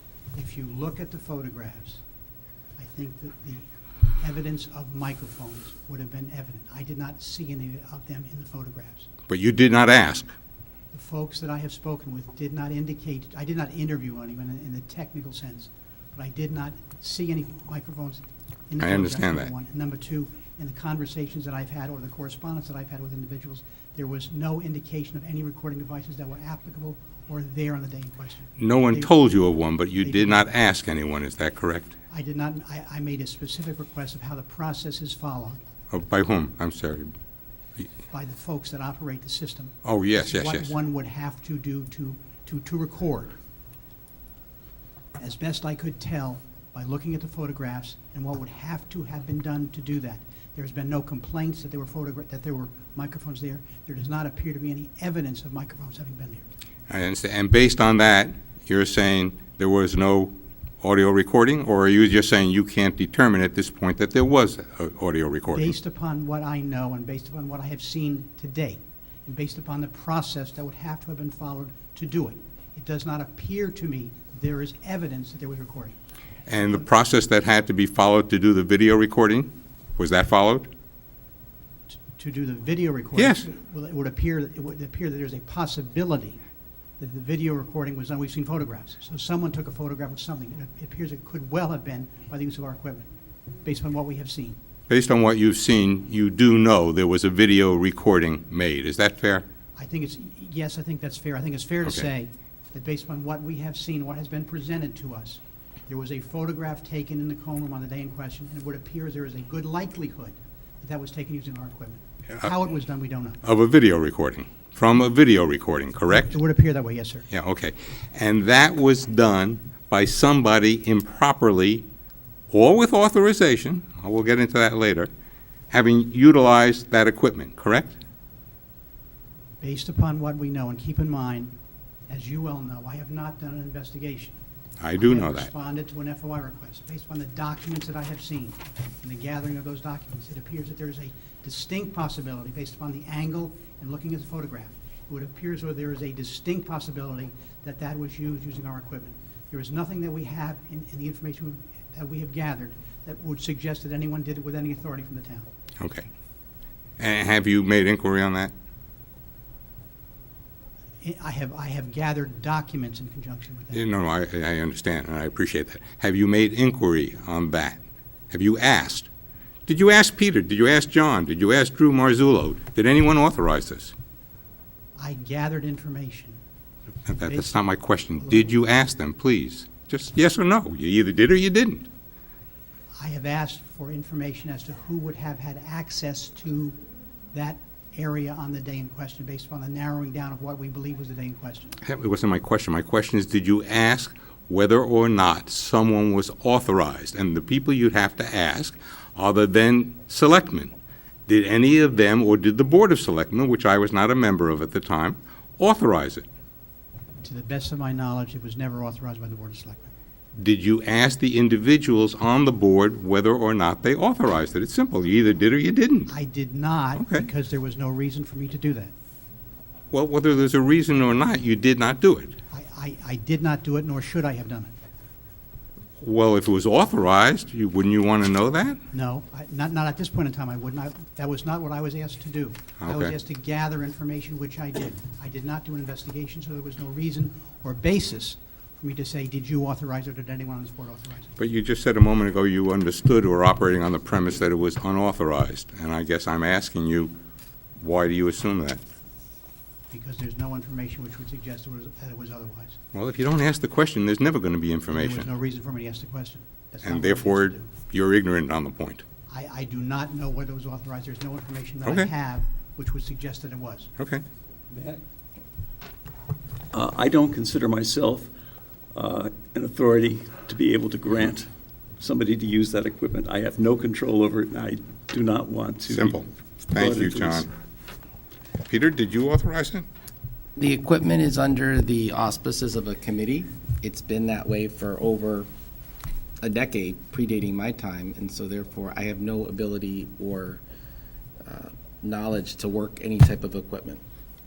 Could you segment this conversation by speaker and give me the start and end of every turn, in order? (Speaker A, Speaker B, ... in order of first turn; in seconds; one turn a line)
Speaker A: 0.3-2.0
Speaker A: 2.8-3.7
Speaker A: 4.2-9.1
Speaker B: 9.3-10.3
Speaker A: 10.9-29.1
Speaker B: 18.8-19.5
Speaker B: 28.6-31.9
Speaker A: 30.0-30.5
Speaker A: 32.1-35.6
Speaker B: 35.9-37.1
Speaker A: 38.1-43.3
Speaker B: 39.8-40.7
Speaker A: 45.2-56.5
Speaker B: 56.9-65.7
Speaker A: 65.5-76.0
Speaker B: 76.5-79.5
Speaker B: 80.0-80.7
Speaker A: 81.9-86.4
Speaker B: 83.2-83.5
Speaker A: 87.0-93.1
Speaker A: 93.6-94.6
Speaker B: 94.9-99.5
Speaker A: 99.8-113.4
Speaker B: 113.4-116.4
Speaker A: 116.1-117.2
Speaker B: 117.3-121.8
Speaker B: 122.5-125.1
Speaker B: 125.7-127.9
Speaker A: 129.6-131.5
Speaker A: 132.1-134.3
Speaker B: 134.8-135.5
Speaker A: 135.0-155.5
Speaker B: 155.8-156.1
Speaker B: 157.0-158.5
Speaker A: 161.0-163.8
Speaker B: 163.7-167.8
Speaker B: 168.3-169.1
Speaker B: 169.7-173.9
Speaker A: 175.0-176.4
Speaker B: 177.1-181.9
Speaker A: 177.2-177.6
Speaker A: 183.0-186.8
Speaker A: 187.3-191.8
Speaker B: 191.8-200.7
Speaker B: 201.3-206.2
Speaker A: 207.2-209.9
Speaker B: 210.3-216.1
Speaker A: 216.1-218.9
Speaker B: 216.9-217.3
Speaker B: 219.9-222.3
Speaker A: 222.5-224.7
Speaker B: 226.0-228.8
Speaker A: 228.9-241.3
Speaker B: 232.8-233.1
Speaker B: 241.4-247.1
Speaker B: 247.8-248.8
Speaker A: 249.9-252.8
Speaker B: 252.9-255.3
Speaker A: 254.9-257.7
Speaker B: 256.8-259.0
Speaker A: 259.3-263.9
Speaker B: 264.0-264.2
Speaker C: 264.7-265.0
Speaker C: 266.7-268.3
Speaker C: 268.9-276.2
Speaker B: 275.9-277.5
Speaker C: 276.7-277.4
Speaker B: 278.7-279.9
Speaker D: 280.6-285.5
Speaker D: 286.4-290.6
Speaker D: 291.4-294.0